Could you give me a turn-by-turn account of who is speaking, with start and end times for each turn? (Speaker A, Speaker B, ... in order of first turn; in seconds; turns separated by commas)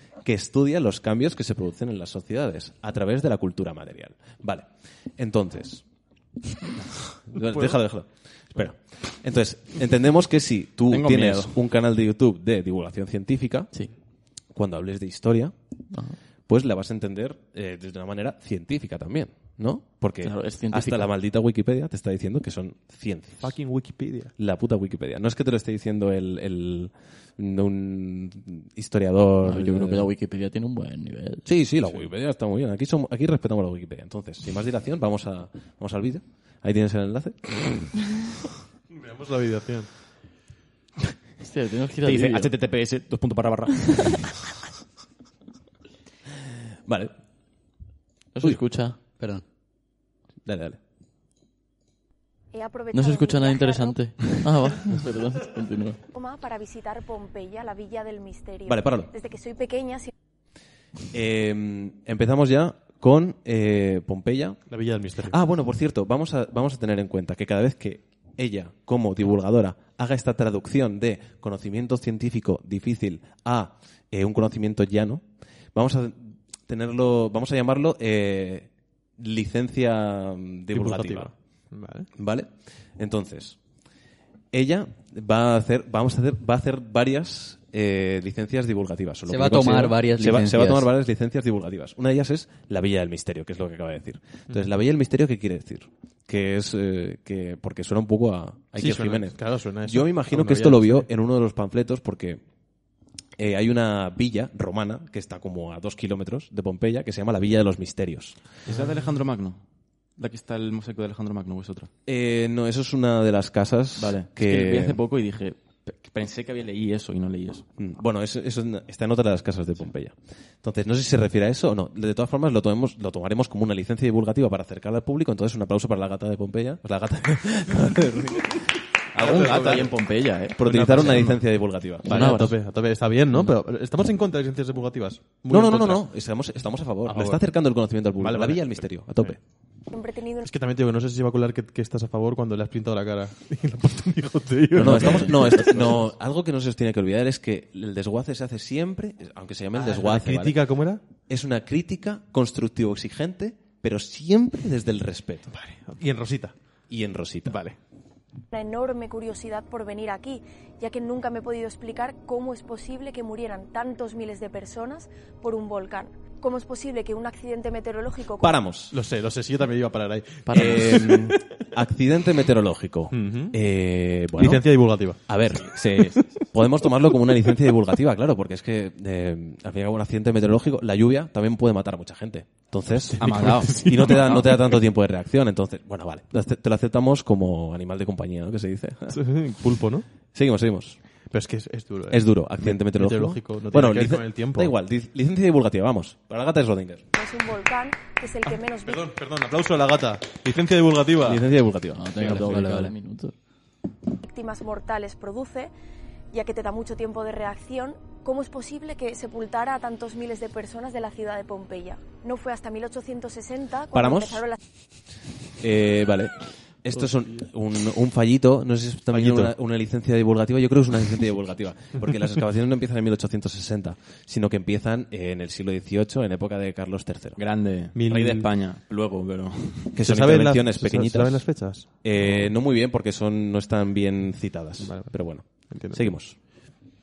Speaker A: 0.2-5.8, Speaker A: 7.2-13.7, Speaker B: 7.5-7.8, Speaker C: 10.9-11.6, Speaker A: 14.5-15.5, Speaker D: 15.9-16.2, Speaker A: 16.5-23.6, Speaker D: 20.2-21.1, Speaker B: 23.4-24.3, Speaker A: 24.4-30.1, Speaker D: 29.4-31.4, Speaker A: 31.4-38.0, Speaker B: 38.9-39.9, Speaker D: 41.4-42.5, Speaker C: 42.0-44.3, Speaker A: 46.9-47.1, Speaker D: 48.4-49.0, Speaker E: 49.2-49.4, Speaker A: 50.5-50.8, Speaker F: 52.5-54.1, Speaker D: 52.9-56.0, Speaker F: 56.1-60.1, Speaker A: 58.7-59.1, Speaker A: 61.1-64.6, Speaker B: 64.7-65.4, Speaker A: 65.2-81.3, Speaker B: 80.7-82.1, Speaker A: 82.2-83.6, Speaker A: 84.5-102.4, Speaker E: 89.3-90.9, Speaker B: 98.8-101.1, Speaker A: 103.4-108.4, Speaker B: 108.7-109.1, Speaker C: 108.7-109.6, Speaker C: 110.2-111.9, Speaker A: 112.1-115.0, Speaker C: 114.0-117.7, Speaker A: 117.8-129.8, Speaker B: 129.2-129.9, Speaker D: 129.2-131.1, Speaker C: 129.3-130.1, Speaker A: 130.6-132.2, Speaker B: 130.6-131.4, Speaker B: 132.0-136.0, Speaker D: 132.1-132.6, Speaker A: 135.5-139.4, Speaker B: 137.1-137.4, Speaker B: 138.2-139.4, Speaker F: 139.9-140.5, Speaker B: 140.4-146.1, Speaker A: 144.7-150.6, Speaker D: 144.8-145.7, Speaker B: 149.7-151.0, Speaker A: 151.3-155.5, Speaker B: 155.5-156.6, Speaker A: 156.9-157.6, Speaker B: 157.5-157.8, Speaker F: 158.5-168.6, Speaker A: 168.4-168.9, Speaker B: 168.9-171.4, Speaker D: 170.5-170.8, Speaker A: 170.5-174.7, Speaker B: 173.1-173.6, Speaker B: 174.4-175.2, Speaker A: 175.3-189.2, Speaker B: 182.9-184.8, Speaker C: 183.3-183.6, Speaker B: 189.1-190.1, Speaker A: 190.3-191.0, Speaker B: 191.3-194.7, Speaker A: 192.1-197.0, Speaker F: 197.1-199.1, Speaker B: 198.5-201.4, Speaker A: 201.2-202.7, Speaker D: 201.9-203.3, Speaker E: 202.3-202.9, Speaker F: 204.2-205.7, Speaker F: 206.3-214.6, Speaker A: 213.9-214.5, Speaker A: 215.6-227.4, Speaker B: 219.1-219.5, Speaker C: 227.4-230.0, Speaker B: 227.9-228.5, Speaker A: 230.0-231.5, Speaker B: 230.0-231.9, Speaker A: 232.0-236.4, Speaker B: 234.8-235.2, Speaker B: 235.7-236.1